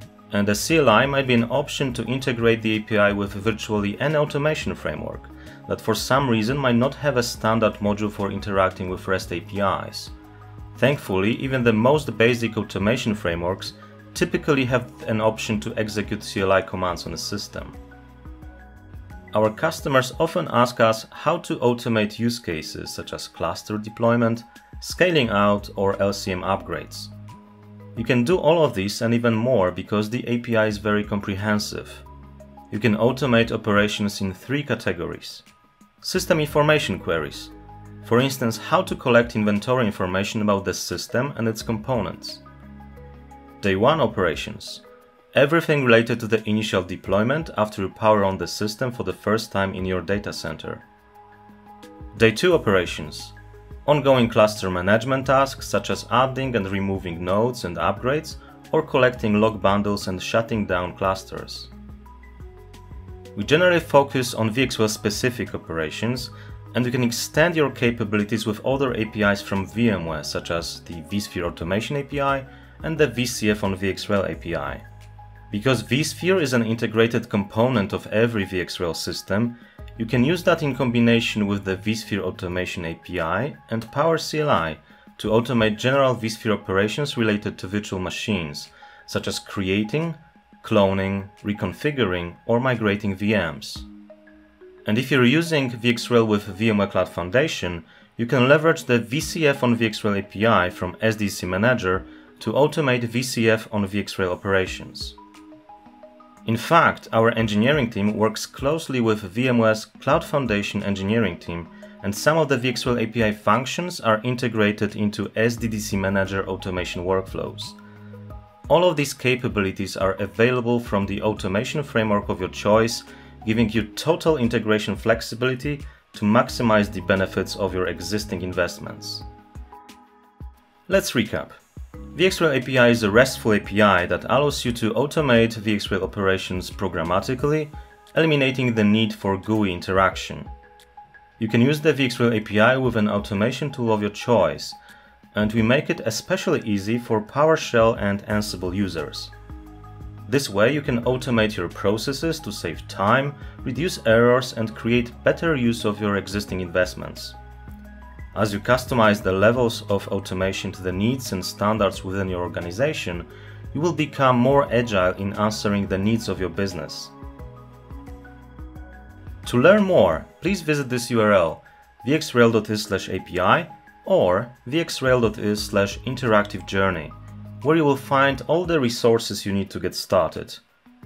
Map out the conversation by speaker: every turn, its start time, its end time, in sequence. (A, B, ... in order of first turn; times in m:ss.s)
0:00.3-0:10.1 A
0:10.7-0:17.8 A
0:19.3-0:27.1 A
0:27.9-0:32.0 A
0:32.7-0:35.4 A
0:36.0-0:42.4 A
0:43.6-0:44.8 A
0:45.3-0:50.8 A
0:52.1-1:01.7 A
1:03.3-1:14.8 A
1:15.5-1:33.9 A
1:34.8-1:45.2 A
1:46.4-1:57.8 A
1:58.7-2:09.2 A
2:10.9-2:11.6 A
2:12.1-2:20.5 A
2:21.4-2:24.8 A
2:25.3-2:29.3 A
2:30.3-2:37.4 A
2:38.3-2:47.1 A
2:49.4-3:00.6 A